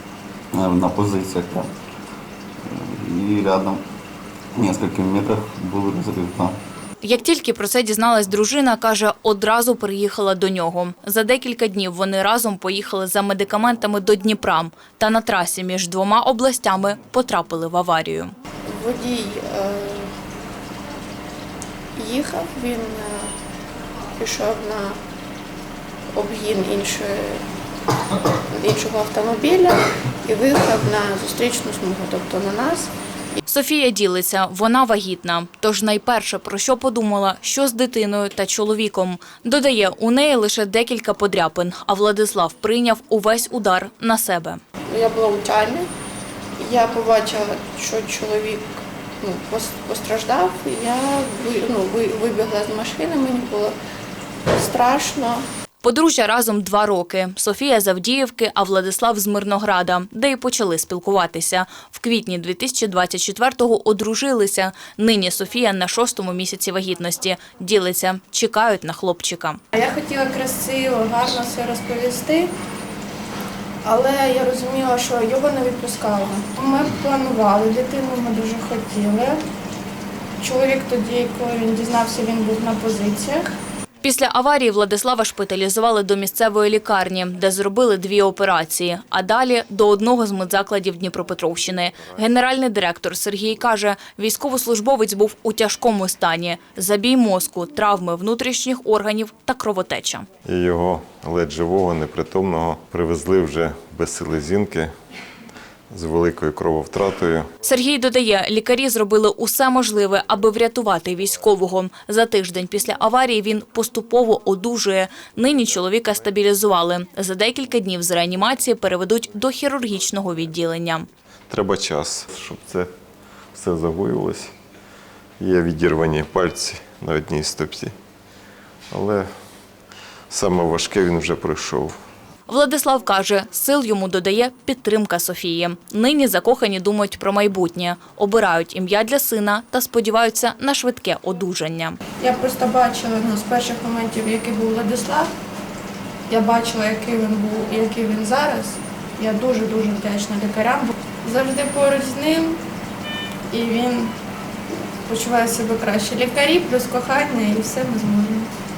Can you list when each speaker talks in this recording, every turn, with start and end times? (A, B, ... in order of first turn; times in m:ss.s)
0:00.5-0:01.7 A
0:02.7-0:03.8 A
0:04.6-0:06.6 A
0:07.0-0:18.3 B
0:18.7-0:20.1 C
0:22.0-0:23.3 C
0:24.2-0:25.0 C
0:26.1-0:27.4 C
0:28.4-0:32.9 C
0:33.5-0:44.6 B
0:44.9-0:45.9 C
0:46.6-0:53.8 C
0:54.5-0:55.5 C
0:55.8-1:09.6 B
1:09.7-1:12.5 C
1:13.8-1:19.4 C
1:20.4-1:23.5 C
1:24.0-1:40.3 B
1:40.4-1:44.9 D
1:45.9-1:47.5 D
1:47.6-2:01.1 B
2:01.5-2:02.9 D
2:03.5-2:04.5 D
2:05.4-2:07.9 D
2:08.9-2:09.3 D
2:10.3-2:12.0 D
2:12.5-2:22.0 B
2:22.2-2:25.3 C
2:26.3-2:32.6 C
2:33.5-2:34.2 C
2:35.1-2:38.5 C